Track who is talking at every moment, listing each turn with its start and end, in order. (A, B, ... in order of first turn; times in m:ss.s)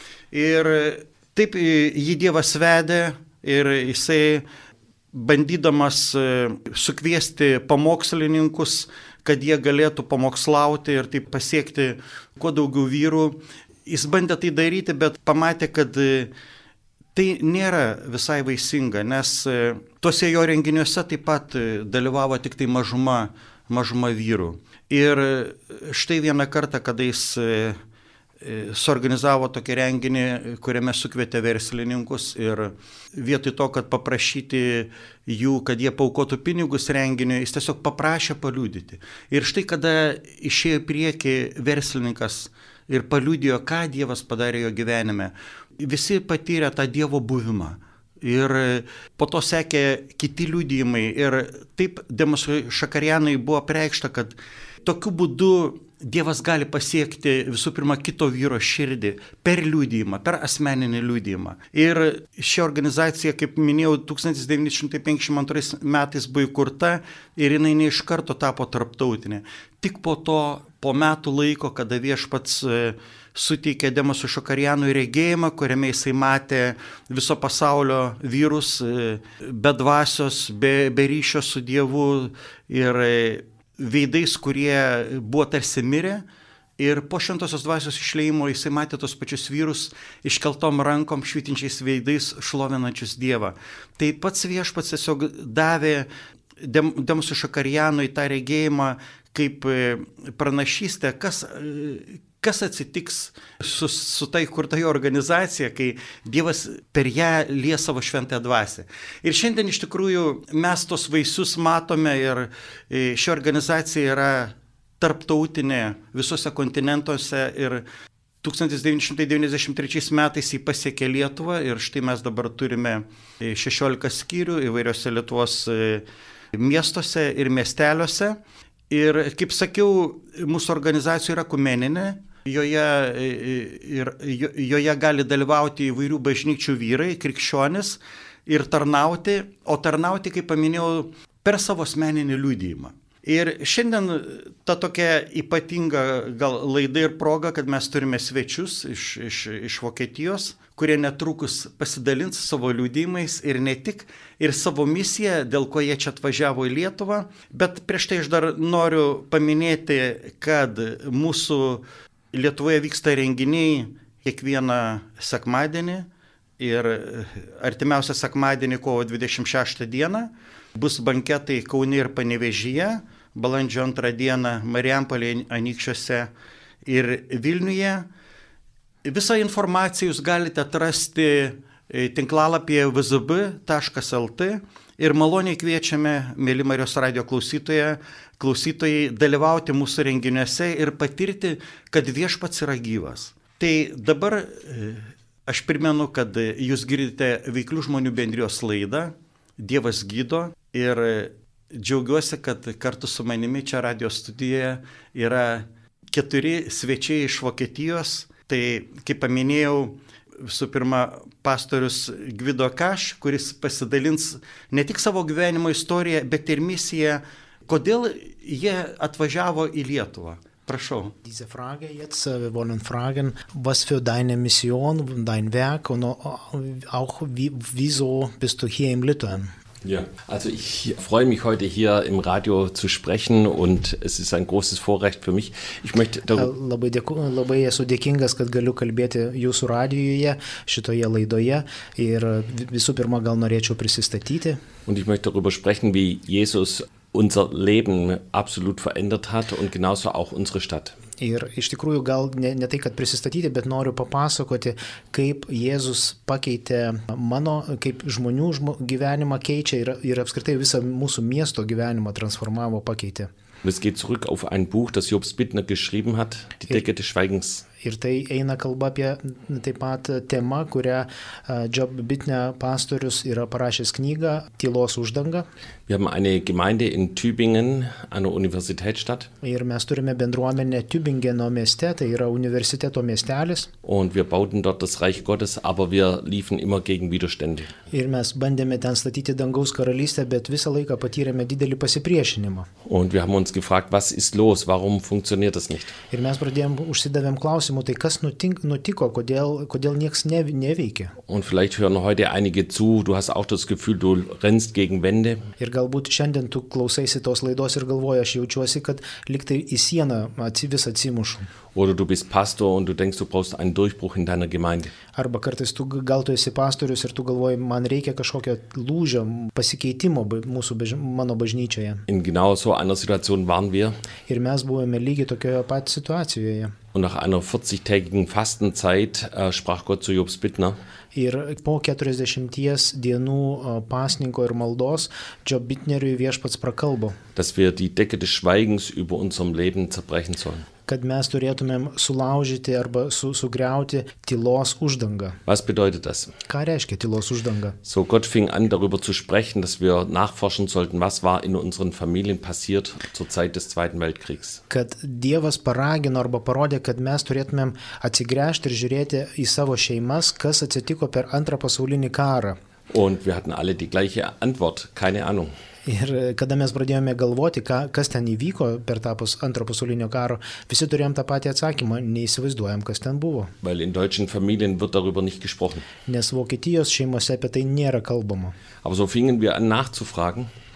0:00.3-0:04.4 A
0:05.1-0:16.3 A
0:17.2-0:27.8 A
0:28.4-1:26.2 A
1:26.8-1:36.1 A
1:36.6-1:57.8 A
1:58.4-2:08.4 A
2:08.9-2:46.1 A
2:46.6-2:56.3 A
2:56.8-2:58.1 A
2:59.0-3:41.2 A
3:41.2-3:49.5 B
3:49.8-3:56.5 C
3:56.4-4:04.6 B
4:04.9-4:11.0 C
4:11.2-4:23.3 B
4:23.6-4:27.7 C
4:27.8-4:35.5 B
4:35.9-4:39.3 C
4:39.4-4:43.7 B
4:43.8-4:47.8 C
4:47.9-4:52.7 B
4:52.8-4:56.0 C
4:56.1-5:01.2 B
5:01.3-5:05.4 C
5:05.6-5:11.5 B
5:11.8-5:14.9 C
5:15.1-5:22.0 B
5:22.1-5:24.0 C
5:24.3-5:26.8 B
5:26.9-5:30.8 C
5:31.1-5:37.2 B
5:37.4-5:40.7 C
5:40.9-5:45.4 B
5:45.5-5:46.3 C
5:46.5-5:47.8 B
5:47.8-5:54.6 C
5:54.7-6:02.6 B
6:02.9-6:05.5 C
6:05.9-6:13.5 B
6:13.6-6:15.9 C
6:16.1-6:18.6 B
6:18.8-6:20.5 C